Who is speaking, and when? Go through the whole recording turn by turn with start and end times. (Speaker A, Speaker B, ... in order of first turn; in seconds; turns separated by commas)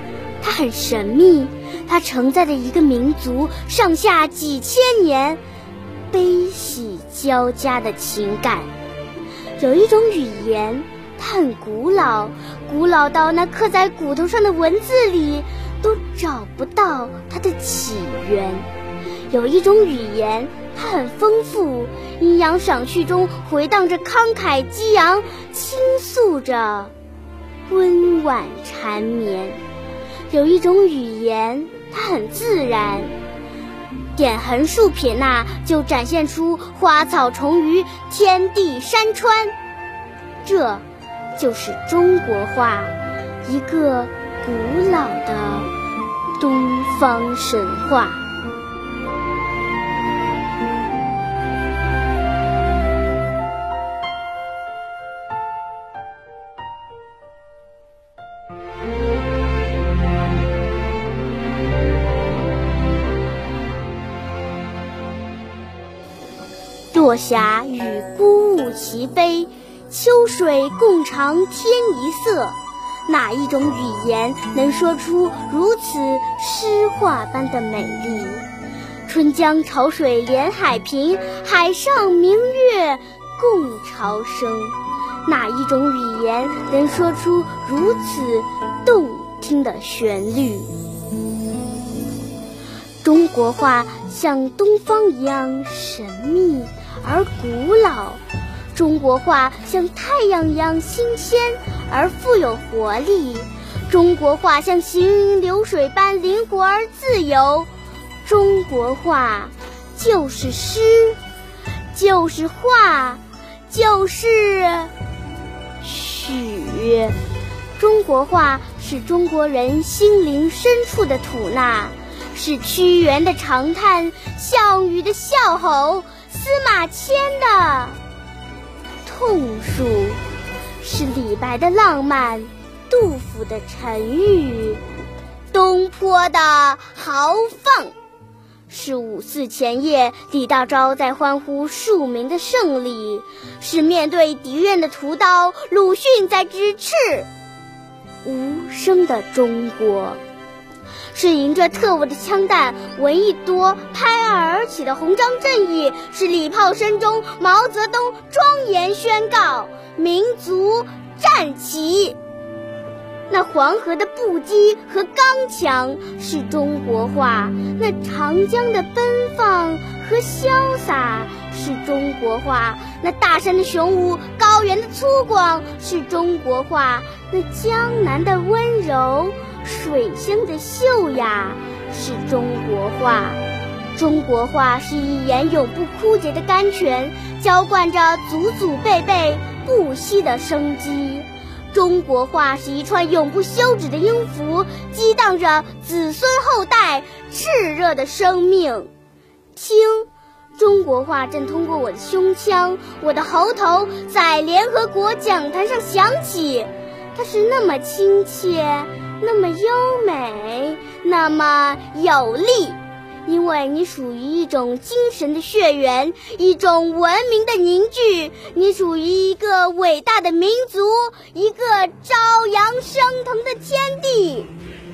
Speaker A: 0.4-5.4, Speaker A: 6.1-8.7, Speaker A: 9.6-18.7, Speaker A: 19.3-26.9, Speaker A: 27.7-29.6, Speaker A: 30.3-33.1, Speaker A: 34.2-39.5, Speaker A: 40.4-40.8, Speaker A: 41.4-45.7, Speaker A: 46.4-48.2, Speaker A: 66.9-78.5, Speaker A: 79.1-90.7, Speaker A: 93.0-98.2, Speaker A: 98.7-107.7, Speaker A: 108.2-111.2, Speaker A: 111.9-114.9, Speaker A: 115.8-117.2, Speaker A: 117.8-128.0, Speaker A: 129.1-130.2, Speaker A: 130.8-134.8, Speaker A: 135.5-137.9, Speaker A: 138.7-147.3, Speaker A: 148.2-150.2, Speaker A: 151.1-162.2, Speaker A: 163.3-183.4, Speaker A: 183.9-198.9, Speaker A: 199.6-224.5